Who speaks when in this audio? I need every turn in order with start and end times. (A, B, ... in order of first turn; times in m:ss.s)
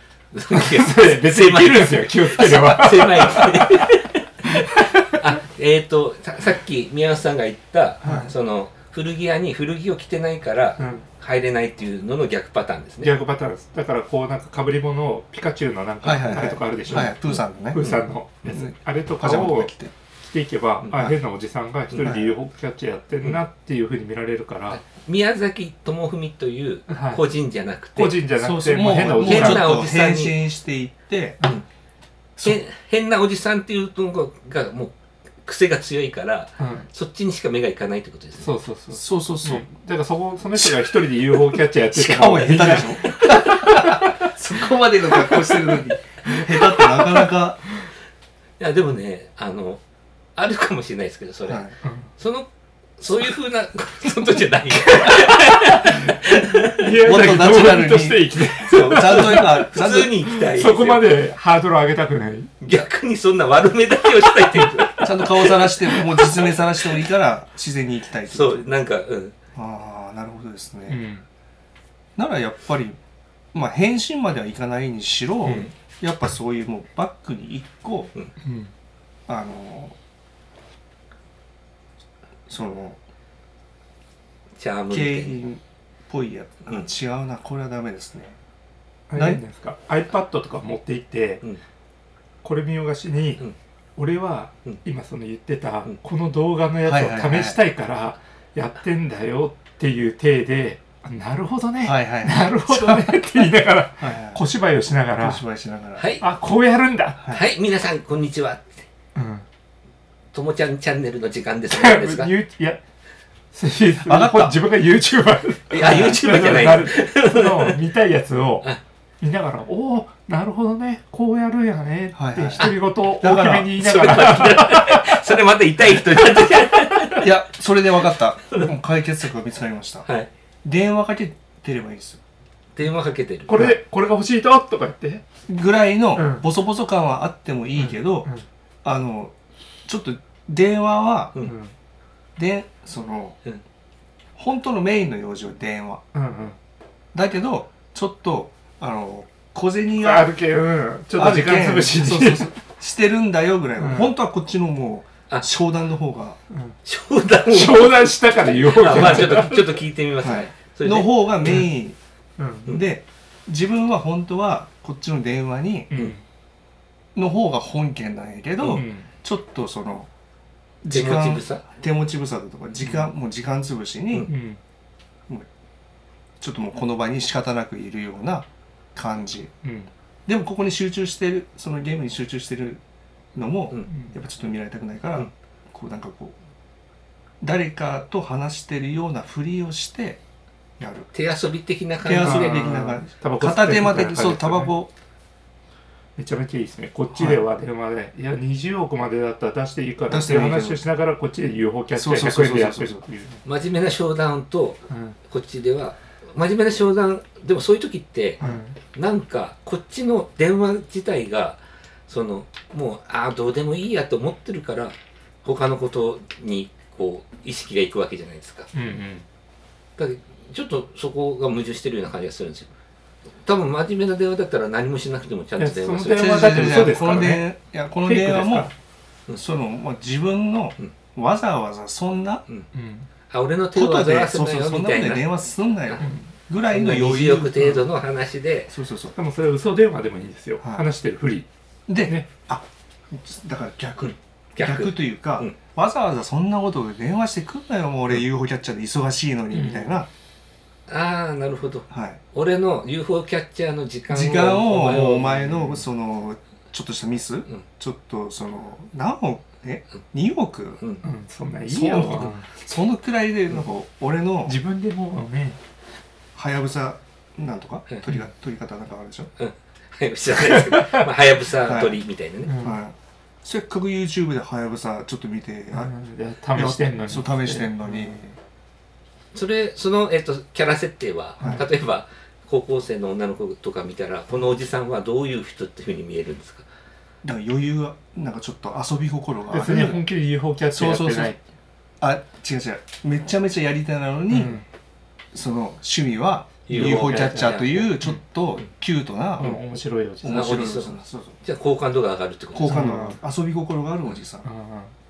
0:00.3-0:04.5 A
0:00.5-0:03.8 B
0:04.6-0:05.1 B
0:05.1-0:13.2 A
0:08.0-0:08.3 C
0:10.8-0:11.0 B
0:13.0-0:24.8 B
0:16.0-0:17.8 C
0:17.8-0:18.0 A
0:18.5-0:19.9 C
0:22.0-0:22.3 C
0:24.7-0:28.3 A
0:26.9-0:27.2 B
0:28.0-0:29.9 B
0:28.4-0:31.4 C
0:29.0-0:30.4 A
0:32.4-0:32.6 C
0:32.4-0:38.5 A
0:36.6-0:36.9 B
0:38.4-0:43.1 B
0:38.9-0:39.7 C
0:40.6-0:40.8 C
0:41.9-0:47.6 C
0:43.0-0:43.9 A
0:46.3-0:47.3 B
0:48.6-0:49.8 A
0:50.4-0:56.7 A
0:51.4-0:51.8 C
0:51.8-0:52.1 B
0:56.8-0:59.6 B
0:57.0-1:00.2 C
0:58.6-1:01.1 A
1:00.2-1:02.5 B
1:02.6-1:06.3 A
1:04.5-1:05.0 B
1:05.0-1:08.7 C
1:08.2-1:09.3 A
1:09.5-1:11.0 C
1:10.9-1:11.2 B
1:12.2-1:13.0 C
1:13.5-1:18.1 C
1:15.4-1:15.7 B
1:18.4-1:18.7 B
1:19.3-1:20.0 C
1:22.5-1:23.0 C
1:24.6-1:25.4 A
1:24.9-1:28.4 C
1:29.1-1:31.4 B
1:29.1-1:29.4 C
1:32.4-1:33.4 B
1:34.0-1:45.4 B
1:36.8-1:37.6 C
1:41.8-1:43.2 C
1:44.0-1:44.4 C
1:45.1-1:46.1 C
1:46.0-1:46.2 A
1:46.2-1:47.2 B
1:47.3-1:48.8 A
1:49.1-1:49.4 B
1:50.3-1:52.3 A
1:51.7-1:52.8 B
1:53.5-2:05.2 B
1:54.0-1:54.6 C
1:55.7-1:57.8 A
2:02.2-2:04.4 C
2:03.8-2:07.3 A
2:07.2-2:10.1 C
2:10.0-2:10.3 A
2:10.6-2:12.2 C
2:12.8-2:13.6 A
2:13.5-2:15.2 B
2:13.5-2:13.8 C
2:15.4-2:18.3 C
2:16.1-2:16.5 B
2:17.7-2:18.4 B
2:18.8-2:19.3 C
2:19.8-2:21.4 C
2:21.4-2:21.7 B
2:22.4-2:23.4 C
2:24.4-2:26.0 C
2:26.1-2:26.6 B
2:27.1-2:30.3 C
2:30.0-2:32.5 B
2:31.1-2:36.4 C
2:33.8-2:34.2 B
2:36.5-2:36.8 B
2:36.8-2:41.6 A
2:37.5-2:39.7 B
2:40.2-2:42.0 C
2:41.4-2:41.7 B
2:42.4-2:42.8 B
2:42.7-2:45.9 C
2:45.9-2:46.2 B
2:47.1-2:50.1 C
2:48.6-2:48.8 A
2:48.7-2:49.1 B
2:50.8-2:54.3 C
2:50.9-2:51.6 A
2:52.8-2:53.1 B
2:54.3-2:54.6 B
2:56.4-2:59.5 C
2:59.6-2:59.9 B
3:00.3-3:02.8 C
3:03.3-3:06.3 C
3:03.9-3:04.2 B
3:07.4-3:10.2 C
3:10.8-3:11.1 C
3:11.1-3:13.0 A
3:12.0-3:14.9 C
3:12.2-3:14.8 B
3:16.2-3:23.4 B
3:17.1-3:17.4 C
3:20.1-3:20.8 C
3:21.9-3:23.0 C
3:23.4-3:28.4 A
3:24.9-3:25.2 B
3:28.4-3:28.7 B
3:28.9-3:38.7 A
3:38.7-3:39.2 B
3:40.0-3:42.7 A
3:43.4-3:46.9 A
3:45.6-3:47.5 B
3:46.1-3:48.7 C
3:48.0-3:48.7 B
3:49.3-3:52.4 C
3:52.7-3:53.1 B
3:53.3-3:55.3 A
3:53.7-3:57.8 C
3:56.0-3:56.2 B
3:56.7-3:58.7 A
3:58.7-3:59.1 C
3:59.1-4:02.3 B
4:01.9-4:10.1 C
4:04.0-4:05.5 A
4:09.5-4:10.0 B
4:10.9-4:15.3 A
4:11.9-4:12.2 C
4:14.1-4:20.8 C
4:14.6-4:15.9 B
4:21.0-4:22.5 B
4:21.6-4:24.6 C
4:24.4-4:25.6 B
4:26.3-4:29.3 C
4:29.4-4:32.6 A
4:30.7-4:31.1 B
4:31.6-4:32.0 C
4:32.4-4:32.8 B
4:32.6-4:35.9 C
4:35.7-4:38.2 B
4:36.5-4:38.4 C
4:39.3-4:46.6 A
4:41.4-4:41.6 C
4:47.2-4:50.0 C
4:49.5-4:51.4 B
4:50.7-4:51.3 C
4:52.0-4:54.6 C
4:54.3-4:54.6 B
4:55.3-4:59.6 C
4:56.7-4:57.6 A
4:56.7-4:58.2 B
4:59.4-5:00.7 B
5:00.2-5:01.4 C
5:00.2-5:02.9 A
5:02.5-5:04.5 C
5:02.7-5:03.2 B
5:04.4-5:04.9 B